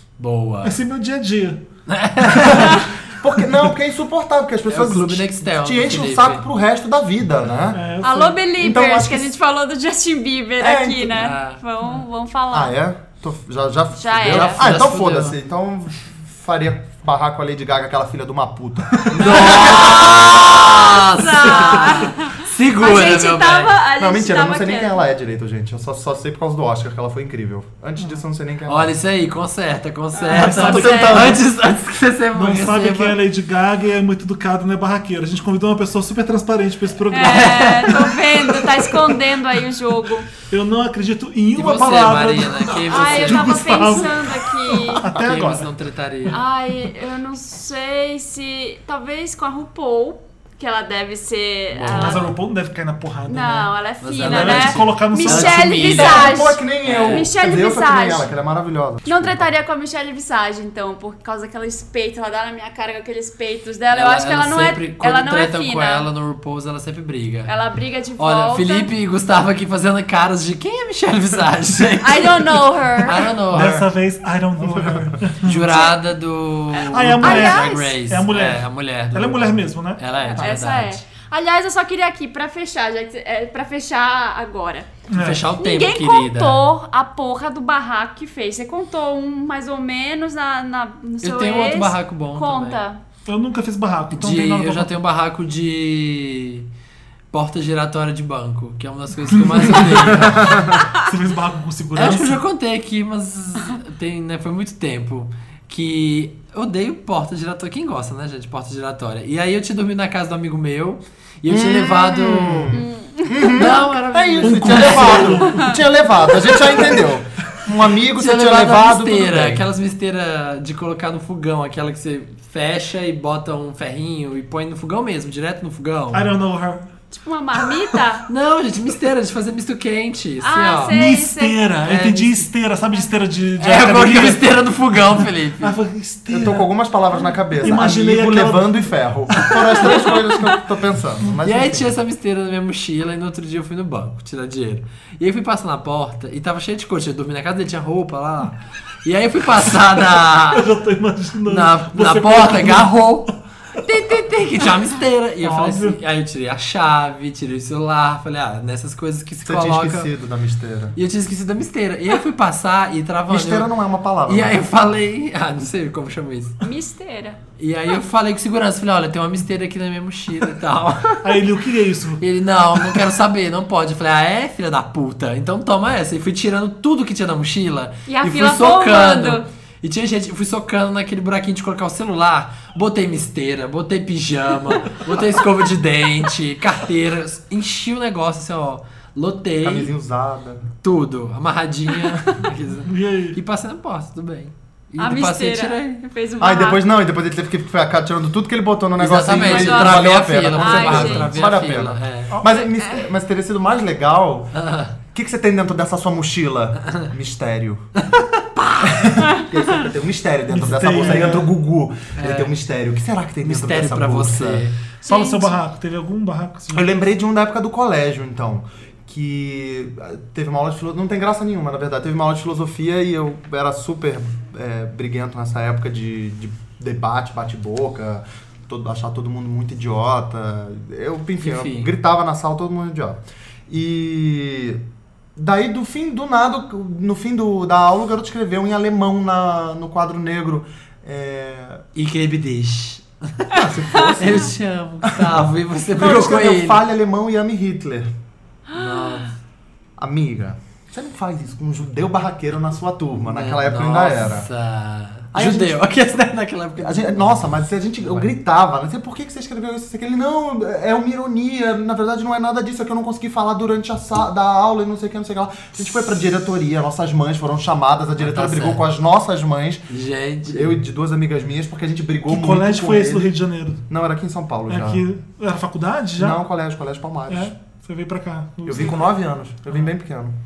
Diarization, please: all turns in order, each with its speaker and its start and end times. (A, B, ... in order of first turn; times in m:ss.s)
0:00.2-0:00.8 A
0:00.6-0:01.6 B
0:01.9-0:02.9 A
0:02.3-0:07.8 C
0:04.7-0:06.4 A
0:07.7-0:08.4 B
0:08.0-0:12.8 D
0:08.6-0:09.3 C
0:10.6-0:11.2 C
0:11.2-0:11.6 A
0:12.5-0:20.8 C
0:14.0-0:14.7 D
0:14.3-0:15.4 A
0:19.2-0:23.8 A
0:21.1-0:25.0 D
0:24.0-0:28.9 C
0:28.7-0:33.2 A
0:30.2-0:31.3 D
0:30.3-0:31.4 B
0:30.6-0:31.4 C
0:32.3-0:38.5 B
0:37.1-0:40.3 D
0:37.2-0:38.1 A
0:40.5-0:45.7 B
0:41.6-0:44.1 A
0:42.9-0:45.0 D
0:45.0-0:46.4 A
0:46.3-0:52.3 D
0:51.7-0:52.4 A
0:51.9-0:56.0 B
0:53.3-0:58.3 D
0:54.0-0:57.3 A
0:55.8-0:59.5 C
0:59.0-1:06.1 D
1:03.9-1:07.5 A
1:07.5-1:08.9 D
1:08.2-1:13.9 A
1:12.0-1:13.2 D
1:13.5-1:15.9 B
1:14.6-1:15.2 C
1:15.4-1:21.0 A
1:16.9-1:20.6 B
1:17.2-1:17.9 D
1:20.2-1:24.9 D
1:25.1-1:25.4 B
1:25.1-1:26.6 A
1:25.6-1:33.0 D
1:31.2-1:32.8 A
1:33.3-1:34.9 B
1:34.1-1:36.7 A
1:37.3-1:40.7 A
1:39.4-1:42.4 B
1:40.0-1:40.8 C
1:42.0-1:52.8 A
1:51.5-1:59.6 C
1:52.7-1:53.6 D
1:53.5-1:55.5 A
1:54.4-1:55.7 B
1:55.4-1:55.8 D
1:58.2-2:06.3 A
2:06.1-2:06.9 B
2:07.1-2:08.2 D
2:08.3-2:11.0 A
2:10.4-2:11.7 D
2:10.9-2:14.5 B
2:11.8-2:12.5 A
2:13.6-2:15.8 A
2:15.1-2:16.7 B
2:16.3-2:21.9 C
2:17.6-2:19.6 B
2:21.4-2:30.7 A
2:30.5-2:33.0 B
2:31.4-2:40.1 A
2:35.4-2:36.0 B
2:39.4-2:41.0 C
2:41.0-2:43.7 A
2:43.3-2:44.6 C
2:44.3-2:46.6 A
2:46.6-2:47.4 D
2:47.6-2:51.4 A
2:51.2-2:52.2 B
2:52.2-3:09.9 A
2:58.1-2:59.4 D
3:09.6-3:10.7 C
3:10.8-3:15.8 A
3:12.9-3:13.4 B
3:15.0-3:16.8 D
3:16.4-3:24.5 C
3:19.0-3:22.3 A
3:19.3-3:21.3 D
3:22.4-3:23.1 D
3:24.5-3:25.0 A
3:25.1-3:27.8 C
3:28.0-3:29.1 A
3:28.8-3:34.6 C
3:29.2-3:29.4 D
3:30.5-3:31.5 B
3:32.2-3:32.5 A
3:33.4-3:34.8 A
3:35.0-3:35.6 D
3:35.0-3:36.9 B
3:36.7-3:54.8 C
3:51.4-3:51.9 A
3:55.4-4:01.8 C
4:02.0-4:03.6 A
4:03.5-4:04.5 C
4:03.9-4:04.2 D
4:04.2-4:06.8 A
4:06.0-4:08.1 C
4:08.7-4:09.3 D
4:08.7-4:09.3 A
4:10.0-4:14.5 C
4:13.3-4:17.5 A
4:15.3-4:15.8 C
4:16.8-4:29.9 C
4:28.2-4:28.8 A
4:29.9-4:30.8 A
4:30.4-4:33.3 C
4:32.3-4:33.8 B
4:33.9-4:35.0 C
4:34.7-4:36.4 B
4:36.2-4:37.5 C
4:37.3-4:39.1 B
4:38.7-4:40.4 C